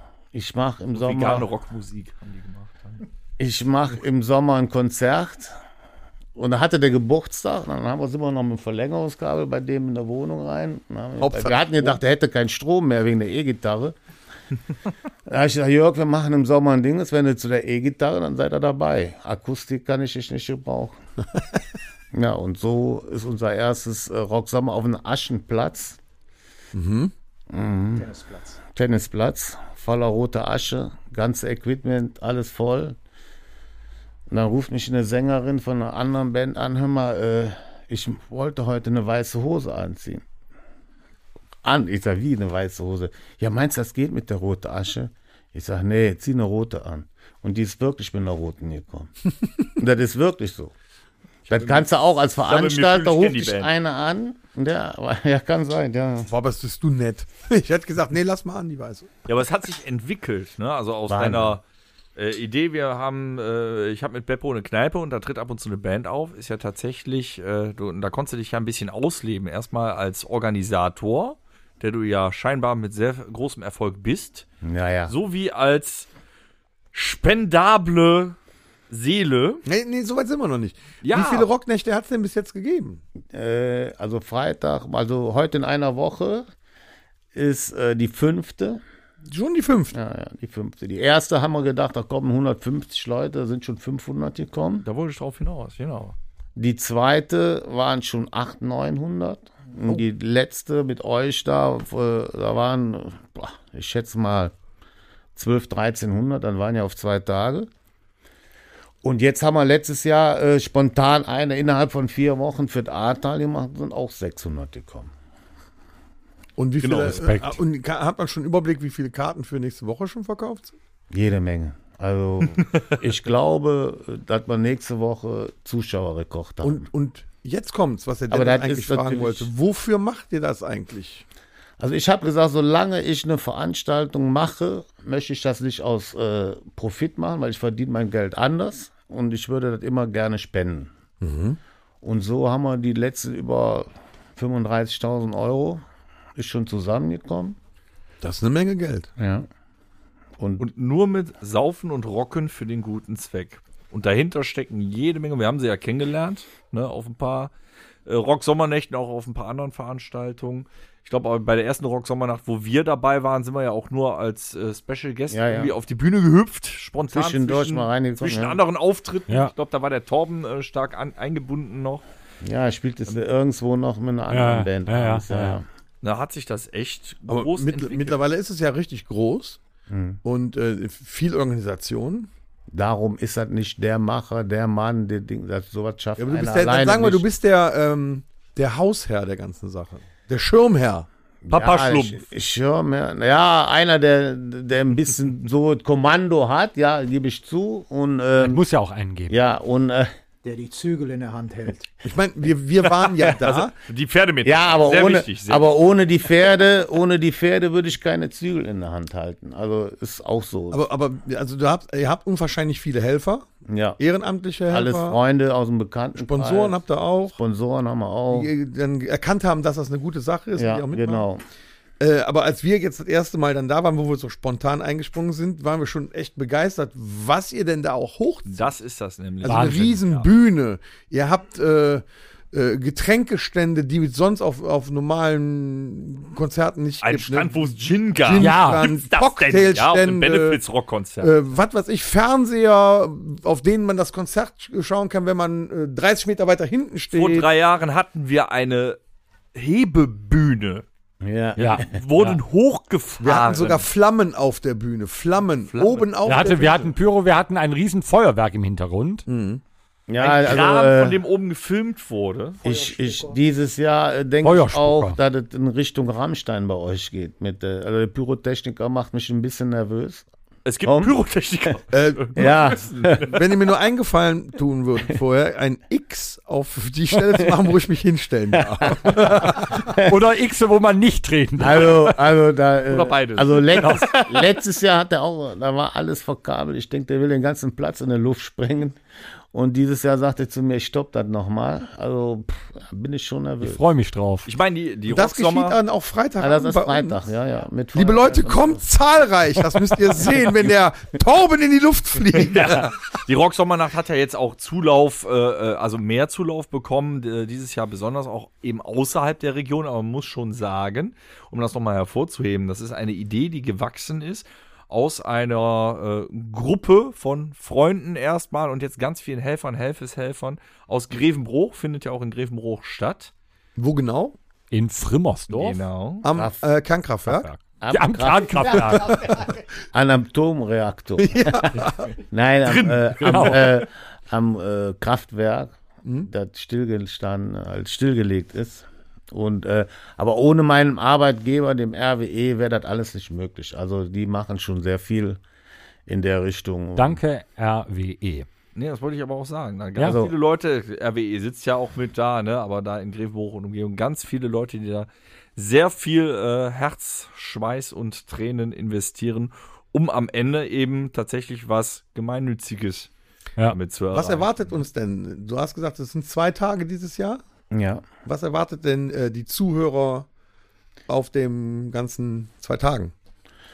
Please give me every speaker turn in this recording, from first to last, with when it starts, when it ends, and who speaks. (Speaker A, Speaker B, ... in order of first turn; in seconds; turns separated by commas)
Speaker A: 0.3-1.5, Speaker B: 0.9-3.0, Speaker A: 3.4-5.5, Speaker A: 6.3-13.9, Speaker C: 11.2-12.0, Speaker A: 15.2-20.9, Speaker A: 22.1-26.0, Speaker C: 26.7-27.1, Speaker A: 27.5-28.1, Speaker D: 27.9-28.6, Speaker A: 28.7-33.0, Speaker A: 34.3-40.2, Speaker A: 41.6-49.1, Speaker A: 49.8-50.7, Speaker B: 51.5-51.9, Speaker A: 51.5-56.3, Speaker B: 52.4-53.7, Speaker C: 56.2-59.1, Speaker B: 59.3-61.6, Speaker A: 61.1-61.6, Speaker B: 62.1-74.5, Speaker A: 74.6-75.1, Speaker B: 75.1-76.1, Speaker B: 76.9-78.3, Speaker B: 78.9-79.6, Speaker C: 79.7-83.0, Speaker B: 81.0-81.5, Speaker A: 83.3-86.5, Speaker A: 87.3-88.8, Speaker C: 89.3-89.9, Speaker A: 89.9-94.8, Speaker B: 94.8-96.2, Speaker A: 96.5-104.5, Speaker A: 105.3-107.7, Speaker A: 109.0-115.1, Speaker C: 116.6-120.7, Speaker B: 116.8-117.2, Speaker E: 116.8-117.6, Speaker A: 121.1-126.9, Speaker C: 126.6-131.2, Speaker A: 128.3-129.5, Speaker A: 131.8-140.9, Speaker C: 141.2-141.6, Speaker A: 142.0-145.8, Speaker A: 146.3-147.6, Speaker C: 148.2-149.1, Speaker A: 149.2-149.5, Speaker A: 150.4-150.6, Speaker B: 150.6-157.5, Speaker B: 158.1-172.0, Speaker A: 165.3-165.7, Speaker A: 167.1-168.6, Speaker A: 172.4-175.6, Speaker E: 174.3-175.6, Speaker B: 176.0-178.2, Speaker C: 177.3-179.6, Speaker A: 179.9-180.2, Speaker C: 180.2-182.3, Speaker A: 182.7-187.3, Speaker C: 186.2-191.1, Speaker A: 191.4-198.6, Speaker B: 191.5-192.2, Speaker E: 198.4-199.4, Speaker A: 199.3-200.1, Speaker D: 200.4-201.9, Speaker C: 202.0-203.7, Speaker B: 203.4-205.7, Speaker A: 204.4-210.9, Speaker C: 210.7-213.5, Speaker A: 213.7-214.0, Speaker C: 214.0-215.2, Speaker A: 214.7-216.8, Speaker C: 216.2-217.4, Speaker A: 217.3-218.5, Speaker C: 218.3-221.3, Speaker A: 220.5-221.4, Speaker C: 222.0-228.7, Speaker B: 228.4-230.3, Speaker C: 229.4-240.6, Speaker E: 229.4-230.0, Speaker B: 237.0-241.3, Speaker E: 238.4-238.8, Speaker C: 241.2-247.5, Speaker B: 247.1-249.0, Speaker B: 249.5-250.8, Speaker A: 251.2-251.9, Speaker E: 251.6-252.4, Speaker B: 251.6-253.9, Speaker C: 253.2-256.9, Speaker B: 255.7-256.1, Speaker E: 256.2-259.2, Speaker C: 259.3-259.6, Speaker A: 260.1-261.2, Speaker B: 260.2-262.6, Speaker D: 262.6-263.4, Speaker A: 262.6-270.3, Speaker E: 264.4-265.2, Speaker B: 270.6-273.4, Speaker A: 270.8-271.1, Speaker C: 271.9-272.6, Speaker A: 272.4-273.3, Speaker C: 273.3-279.8, Speaker A: 278.6-280.1, Speaker E: 280.0-282.1, Speaker A: 281.6-289.0, Speaker B: 282.9-284.1, Speaker A: 289.5-293.8, Speaker E: 293.6-294.5, Speaker B: 294.4-295.8, Speaker C: 295.1-297.2, Speaker A: 296.4-298.9, Speaker C: 297.9-302.9, Speaker B: 302.4-323.3, Speaker C: 323.8-324.4, Speaker E: 324.7-325.8, Speaker B: 325.5-326.2, Speaker C: 326.2-327.5, Speaker A: 326.3-326.6, Speaker E: 327.3-329.1, Speaker A: 327.8-345.4, Speaker C: 328.9-329.5, Speaker C: 331.2-332.1, Speaker B: 332.6-333.8, Speaker E: 333.2-333.6, Speaker C: 336.0-336.3, Speaker A: 346.1-347.2, Speaker E: 346.9-348.5, Speaker B: 348.7-363.1, Speaker A: 350.0-350.3, Speaker B: 363.7-364.5, Speaker C: 364.1-367.4, Speaker A: 367.7-368.1, Speaker C: 368.2-370.3, Speaker C: 371.1-373.1